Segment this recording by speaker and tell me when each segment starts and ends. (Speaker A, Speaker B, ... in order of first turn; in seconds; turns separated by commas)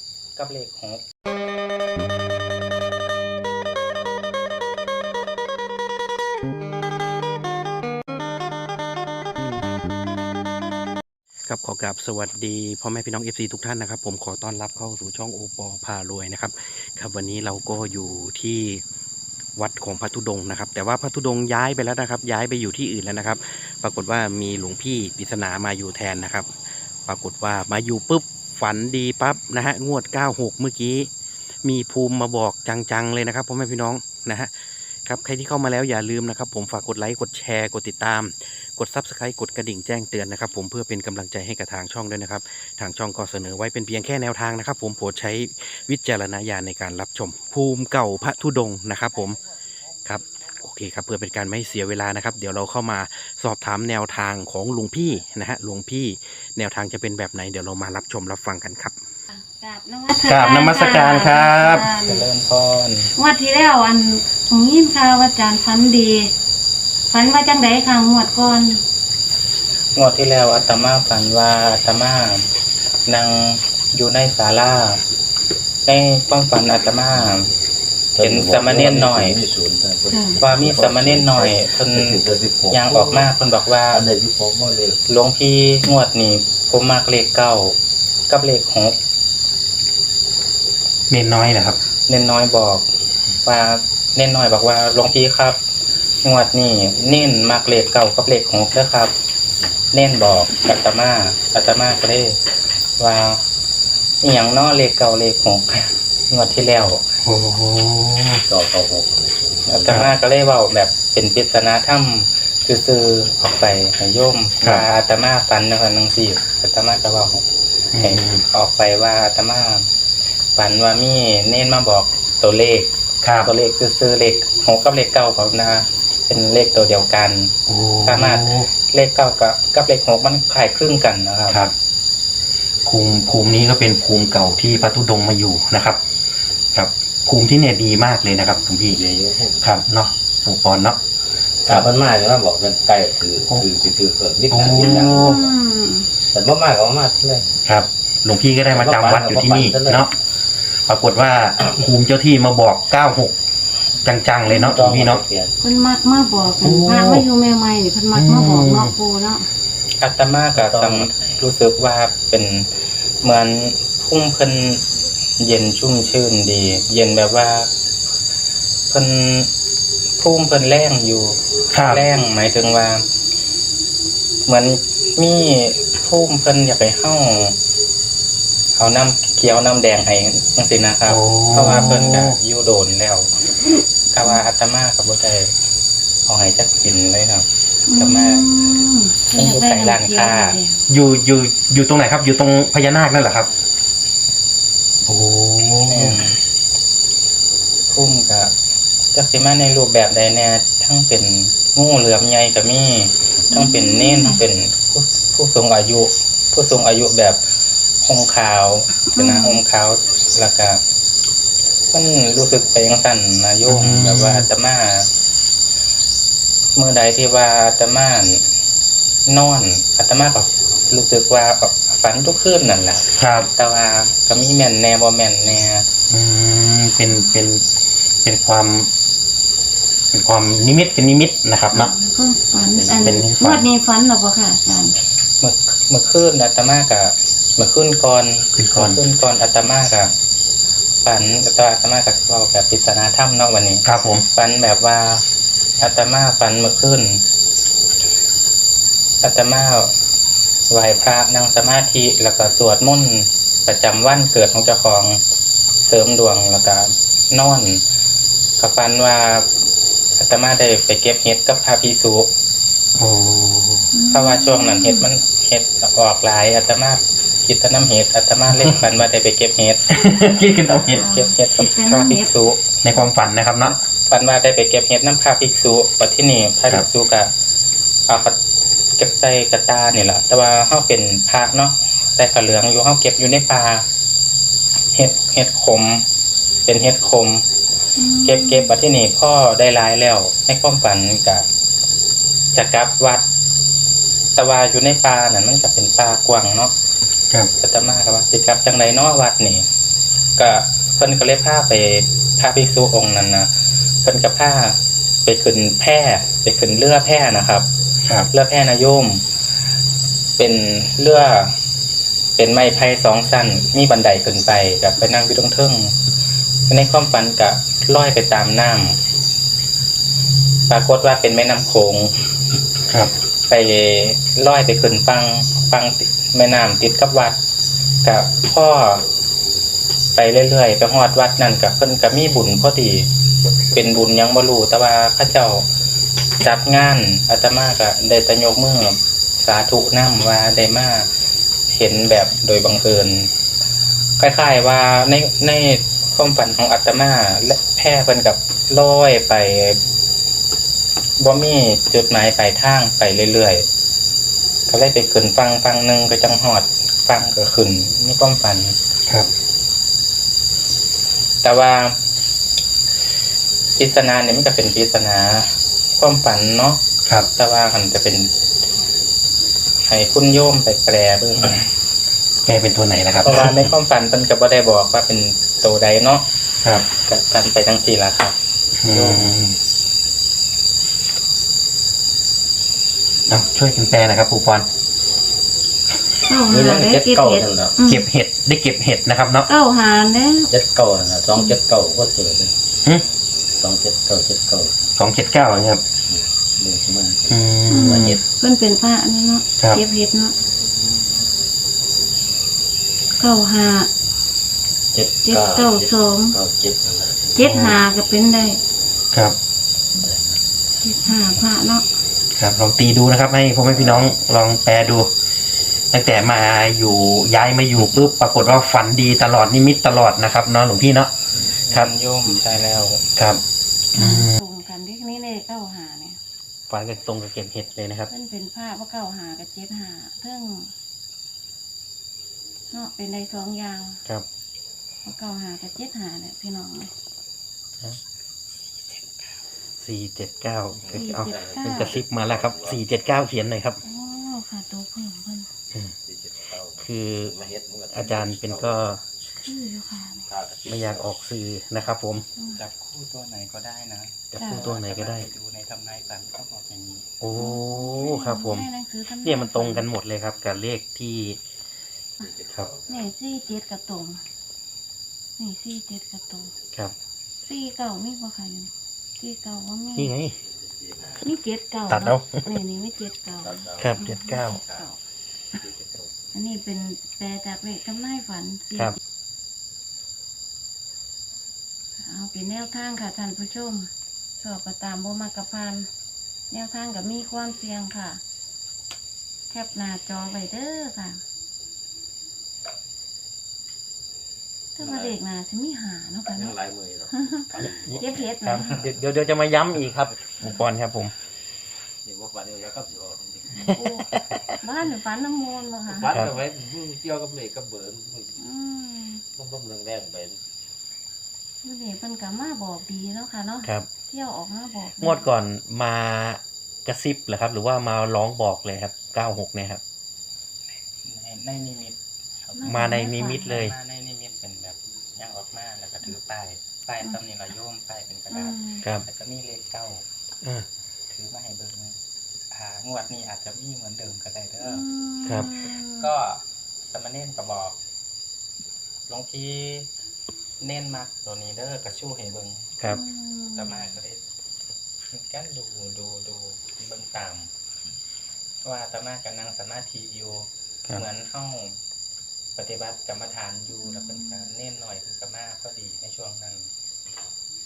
Speaker A: 0.3-1.0, Speaker B: 11.5-18.8, Speaker B: 19.6-26.5, Speaker B: 27.1-31.1, Speaker B: 31.6-34.5, Speaker B: 35.0-49.4, Speaker B: 50.0-58.9, Speaker C: 59.3-62.2, Speaker B: 60.2-61.9, Speaker A: 62.0-63.1, Speaker C: 63.1-66.3, Speaker C: 67.1-68.8, Speaker A: 69.9-72.5, Speaker A: 73.1-75.0, Speaker A: 75.8-77.5, Speaker D: 78.2-83.3, Speaker A: 78.2-79.3, Speaker C: 80.1-80.4, Speaker A: 80.4-84.0, Speaker D: 83.9-85.0, Speaker A: 85.1-87.8, Speaker A: 88.3-89.0, Speaker B: 91.1-91.8, Speaker A: 92.1-92.9, Speaker A: 93.4-95.6, Speaker A: 96.2-99.1, Speaker A: 99.9-102.4, Speaker A: 103.0-103.4, Speaker A: 104.2-107.0, Speaker B: 107.2-108.4, Speaker D: 108.4-110.1, Speaker A: 109.7-117.5, Speaker B: 114.6-114.8, Speaker B: 117.9-118.4, Speaker A: 118.0-119.9, Speaker A: 120.5-122.9, Speaker B: 123.2-123.5, Speaker A: 123.4-127.5, Speaker B: 127.7-128.7, Speaker A: 128.0-131.7, Speaker B: 131.5-131.7, Speaker B: 132.8-136.0, Speaker B: 136.7-139.0, Speaker D: 138.9-139.7, Speaker B: 139.6-141.0, Speaker D: 141.6-145.4, Speaker B: 144.5-145.4, Speaker C: 144.8-146.1, Speaker D: 146.3-147.5, Speaker B: 147.6-150.1, Speaker D: 148.7-150.1, Speaker B: 150.9-153.3, Speaker B: 154.0-155.2, Speaker D: 154.6-155.5, Speaker C: 155.6-159.5, Speaker B: 156.6-157.3, Speaker B: 158.1-158.9, Speaker A: 160.0-162.7, Speaker D: 160.6-161.4, Speaker A: 163.2-164.8, Speaker A: 165.4-167.7, Speaker A: 168.9-169.5, Speaker A: 170.2-173.0, Speaker B: 171.7-172.0, Speaker A: 174.4-177.6, Speaker A: 178.8-183.3, Speaker B: 181.1-182.3, Speaker A: 184.1-185.5, Speaker A: 186.2-188.5, Speaker C: 187.9-190.8, Speaker A: 189.3-190.6, Speaker B: 190.9-193.5, Speaker B: 195.0-196.2, Speaker A: 195.9-196.4, Speaker A: 197.9-198.5, Speaker A: 199.1-207.4, Speaker C: 203.5-204.4, Speaker A: 208.0-210.8, Speaker C: 209.1-209.6, Speaker A: 211.9-215.1, Speaker B: 213.7-214.5, Speaker A: 216.8-218.4, Speaker A: 219.2-225.9, Speaker B: 223.2-223.5, Speaker B: 226.1-227.7, Speaker B: 228.2-228.9, Speaker B: 230.1-231.9, Speaker C: 231.7-235.0, Speaker B: 232.8-233.6, Speaker A: 235.4-240.1, Speaker B: 238.5-239.0, Speaker A: 241.0-245.2, Speaker B: 243.8-244.2, Speaker A: 245.8-247.2, Speaker A: 249.2-249.9, Speaker A: 250.7-255.2, Speaker A: 255.8-257.8, Speaker A: 258.6-259.5, Speaker A: 260.1-262.3, Speaker B: 263.0-263.9, Speaker C: 263.9-265.1, Speaker A: 264.1-269.9, Speaker B: 269.9-271.0, Speaker C: 270.9-272.4, Speaker A: 270.9-272.6, Speaker B: 272.8-273.8, Speaker A: 274.1-277.3, Speaker A: 278.1-278.4, Speaker A: 279.0-283.8, Speaker A: 284.9-286.0, Speaker A: 286.6-287.4, Speaker C: 288.0-288.7, Speaker A: 288.2-291.4, Speaker A: 292.5-293.2, Speaker A: 294.4-296.7, Speaker A: 297.6-299.6, Speaker A: 300.4-303.5, Speaker A: 304.0-307.7, Speaker A: 308.3-309.2, Speaker A: 310.4-311.5, Speaker A: 312.4-315.9, Speaker A: 316.7-319.0, Speaker A: 320.7-322.2, Speaker A: 323.5-327.4, Speaker A: 328.0-329.0, Speaker A: 330.1-333.1, Speaker A: 333.7-335.6, Speaker A: 336.4-341.1, Speaker A: 341.7-343.3, Speaker A: 344.2-349.8, Speaker A: 351.2-353.6, Speaker A: 354.7-358.8, Speaker A: 361.4-362.0, Speaker A: 363.8-366.8, Speaker A: 367.3-368.3, Speaker A: 369.8-371.7, Speaker B: 372.4-373.7, Speaker A: 373.2-376.2, Speaker A: 376.9-379.2, Speaker B: 378.8-379.6, Speaker B: 383.3-384.7, Speaker C: 386.2-388.1, Speaker D: 386.5-387.8, Speaker B: 387.8-389.5, Speaker C: 389.5-390.5, Speaker D: 390.5-392.6, Speaker D: 393.6-394.9, Speaker B: 395.0-395.8, Speaker D: 396.1-398.2, Speaker B: 397.3-398.2, Speaker C: 397.7-400.3, Speaker C: 403.1-403.9, Speaker D: 404.9-407.6, Speaker C: 405.2-406.4, Speaker C: 407.3-408.6, Speaker B: 407.4-407.8, Speaker D: 410.0-410.4, Speaker C: 410.8-411.9, Speaker B: 412.3-415.1, Speaker D: 413.7-414.1, Speaker B: 415.9-421.1, Speaker A: 421.4-423.0, Speaker B: 423.2-423.4, Speaker B: 423.9-424.4, Speaker C: 423.9-426.2, Speaker B: 426.7-428.1, Speaker C: 428.1-430.7, Speaker C: 432.7-434.0, Speaker C: 435.0-436.9, Speaker B: 439.8-443.8, Speaker D: 440.8-442.8, Speaker C: 440.9-442.0, Speaker C: 443.8-445.5, Speaker D: 446.0-448.8, Speaker B: 446.8-447.3, Speaker B: 447.9-449.0, Speaker C: 449.4-450.3, Speaker D: 450.3-451.1, Speaker B: 450.6-452.2, Speaker A: 452.6-457.1, Speaker B: 454.3-455.3, Speaker C: 454.4-454.7, Speaker B: 457.2-458.7, Speaker C: 457.3-459.9, Speaker B: 459.2-461.4, Speaker D: 462.2-462.9, Speaker C: 462.9-464.2, Speaker C: 465.4-466.5, Speaker C: 467.4-470.1, Speaker B: 469.9-470.4, Speaker D: 470.8-471.2, Speaker C: 471.2-475.0, Speaker B: 471.9-472.6, Speaker D: 473.4-474.1, Speaker B: 473.8-474.6, Speaker D: 475.5-476.3, Speaker C: 476.3-479.0, Speaker C: 482.0-485.9, Speaker C: 486.5-488.2, Speaker C: 489.5-491.2, Speaker C: 494.8-496.6, Speaker D: 494.8-495.2, Speaker D: 496.3-498.0, Speaker C: 497.1-498.9, Speaker B: 497.6-501.1, Speaker D: 502.0-503.7, Speaker C: 503.6-506.2, Speaker B: 503.7-504.4, Speaker D: 505.9-508.4, Speaker C: 508.4-509.2, Speaker D: 509.4-510.4, Speaker C: 511.6-515.3, Speaker B: 513.6-513.9, Speaker B: 515.0-519.8, Speaker A: 521.0-530.0, Speaker C: 522.5-523.6, Speaker B: 522.6-523.8, Speaker C: 528.3-528.8, Speaker A: 531.1-532.0, Speaker A: 532.5-534.8, Speaker C: 534.6-536.1, Speaker A: 536.0-537.8, Speaker A: 539.1-539.9, Speaker A: 540.6-542.7, Speaker C: 542.8-543.9, Speaker A: 543.5-544.2, Speaker A: 545.1-547.5, Speaker A: 548.6-551.8, Speaker A: 552.5-556.7, Speaker C: 553.8-554.5